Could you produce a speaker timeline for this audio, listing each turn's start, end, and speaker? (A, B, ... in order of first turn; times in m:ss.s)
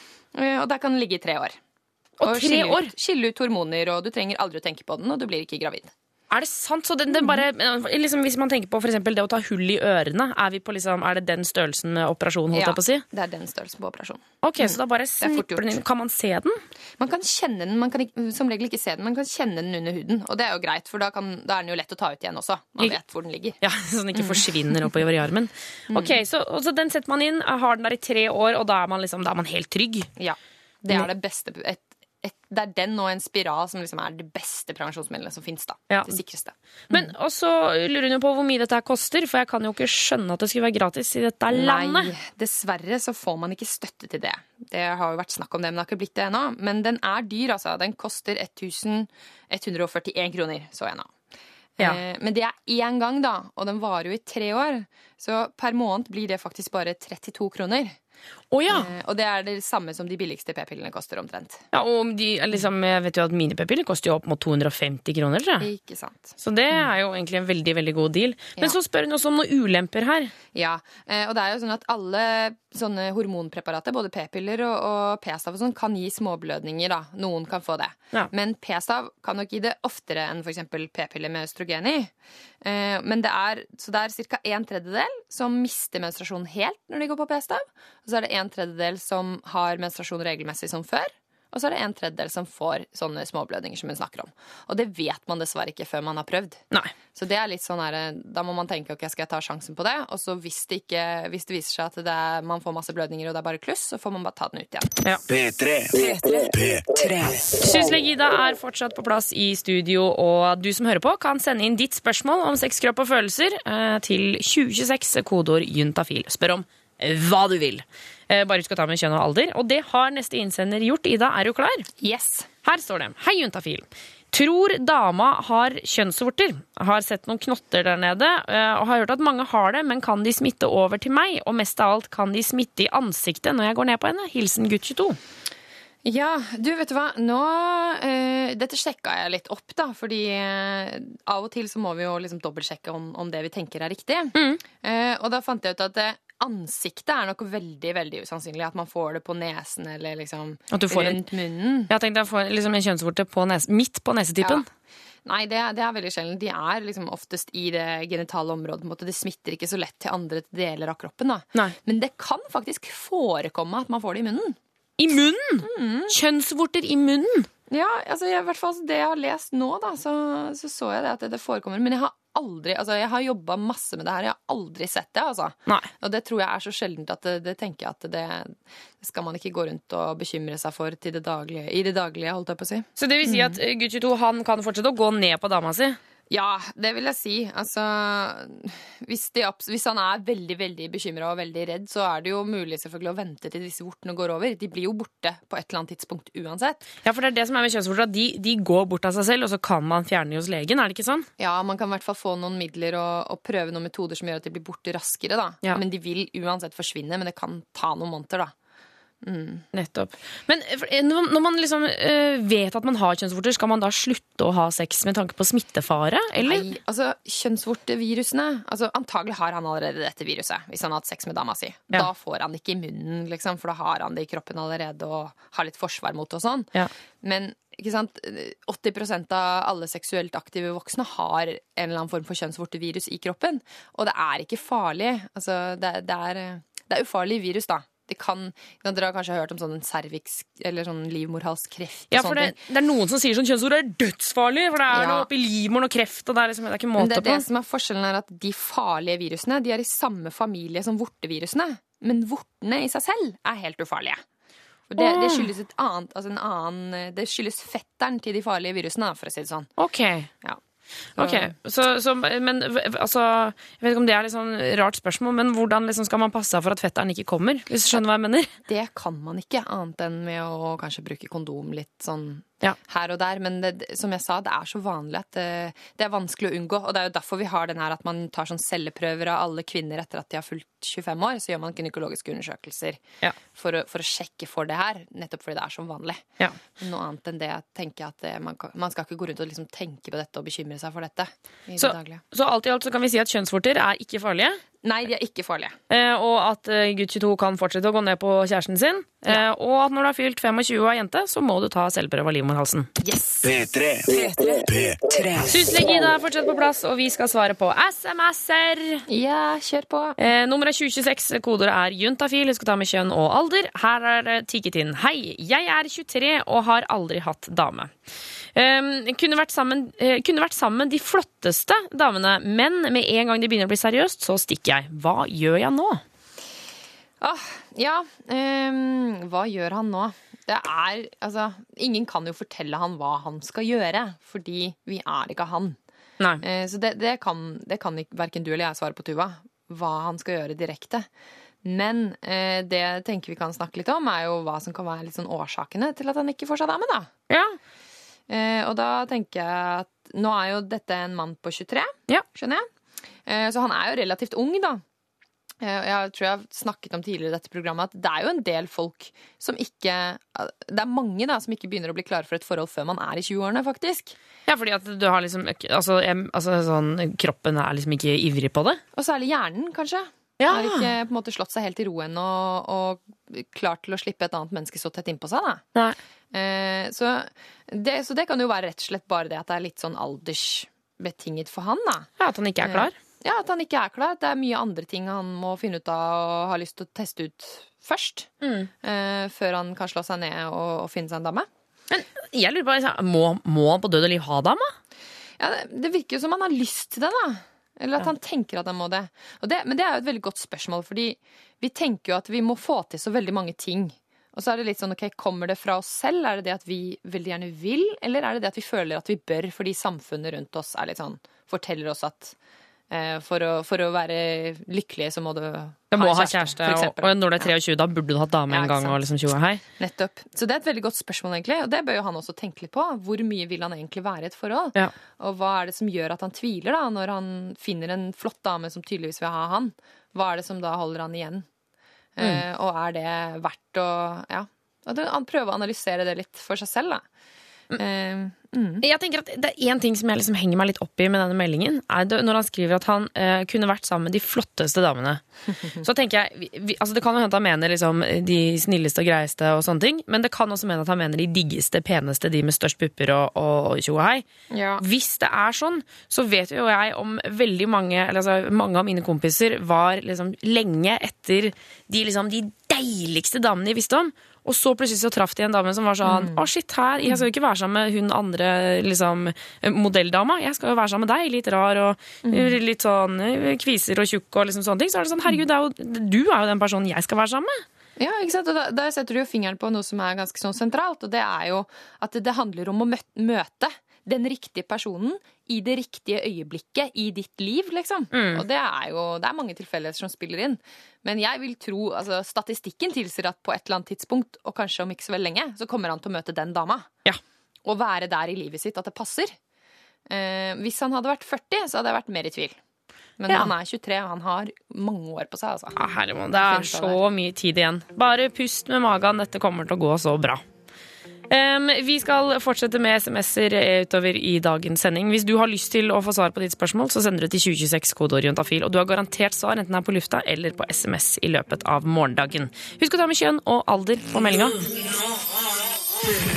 0:00.3-0:01.6 A
0:02.2-0:02.9 B
0:02.2-0:05.9 A
0:06.3-0:13.0 B
0:12.5-0:15.8 A
0:14.4-0:16.6 B
0:17.0-0:23.6 A
0:23.6-0:30.1 B
0:24.2-0:24.4 A
0:25.9-0:26.2 A
0:30.2-0:37.1 A
0:35.9-0:36.2 B
0:36.9-0:42.1 B
0:41.5-0:51.1 A
0:51.8-0:58.0 A
0:58.5-0:58.9 B
0:58.7-1:01.6 A
1:01.7-1:05.7 B
1:05.6-1:06.8 A
1:06.4-1:10.3 B
1:10.5-1:36.6 A
1:37.2-1:44.9 A
1:45.3-1:47.7 C
1:47.6-2:01.9 B
2:02.0-2:02.5 A
2:02.6-2:15.2 B
2:16.0-2:31.9 A
2:24.4-2:24.6 B
2:30.7-2:31.2 B
2:31.9-2:34.7 B
2:35.2-2:44.6 A
2:45.0-2:47.5 B
2:45.6-2:46.1 A
2:47.7-3:03.6 A
3:03.0-3:06.0 B
3:06.3-3:16.9 A
3:17.0-3:21.3 B
3:21.4-3:28.5 A
3:29.2-3:29.6 A
3:29.7-3:36.6 B
3:36.4-3:46.7 A
3:47.2-4:02.6 A
4:02.1-4:07.4 B
4:04.9-4:05.3 A
4:07.0-4:14.2 A
4:14.9-4:19.7 A
4:15.0-4:15.5 B
4:19.8-4:20.3 B
4:21.2-4:21.5 A
4:21.2-4:28.5 B
4:28.7-4:43.0 A
4:43.5-4:46.2 A
4:46.8-4:52.2 A
4:51.8-4:54.6 B
4:54.8-4:55.8 A
4:55.9-5:02.9 B
5:03.0-5:03.5 A
5:03.4-5:05.8 C
5:05.5-5:09.0 B
5:09.1-5:10.2 A
5:10.2-5:17.9 B
5:18.6-5:26.0 B
5:27.2-5:35.8 A
5:36.4-5:41.1 A
5:41.6-5:47.1 A
5:47.3-5:47.6 B
5:48.3-5:52.7 A
5:53.2-5:54.8 A
5:55.6-6:04.1 A
6:04.5-6:08.8 B
6:09.0-6:15.7 A
6:10.4-6:10.9 B
6:16.3-6:22.1 A
6:22.2-6:22.9 B
6:22.6-6:28.3 A
6:28.4-6:28.7 B
6:28.8-6:31.5 A
6:31.9-6:34.7 B
6:35.4-6:52.3 A
6:52.9-6:57.5 A
6:55.9-6:59.6 B
6:58.5-6:59.0 A
6:59.8-7:11.5 A
7:12.2-7:17.0 A
7:17.8-7:18.8 A
7:18.8-7:25.2 B
7:25.8-7:34.3 B
7:34.5-7:34.8 A
7:34.8-7:57.6 B
7:46.0-7:46.5 A
7:52.2-7:52.6 A
7:58.0-8:16.9 A
8:08.1-8:08.4 B
8:17.6-8:19.4 A
8:20.1-8:22.6 A
8:23.2-8:25.8 A
8:25.8-8:30.4 B
8:26.3-8:27.0 A
8:31.3-8:44.6 B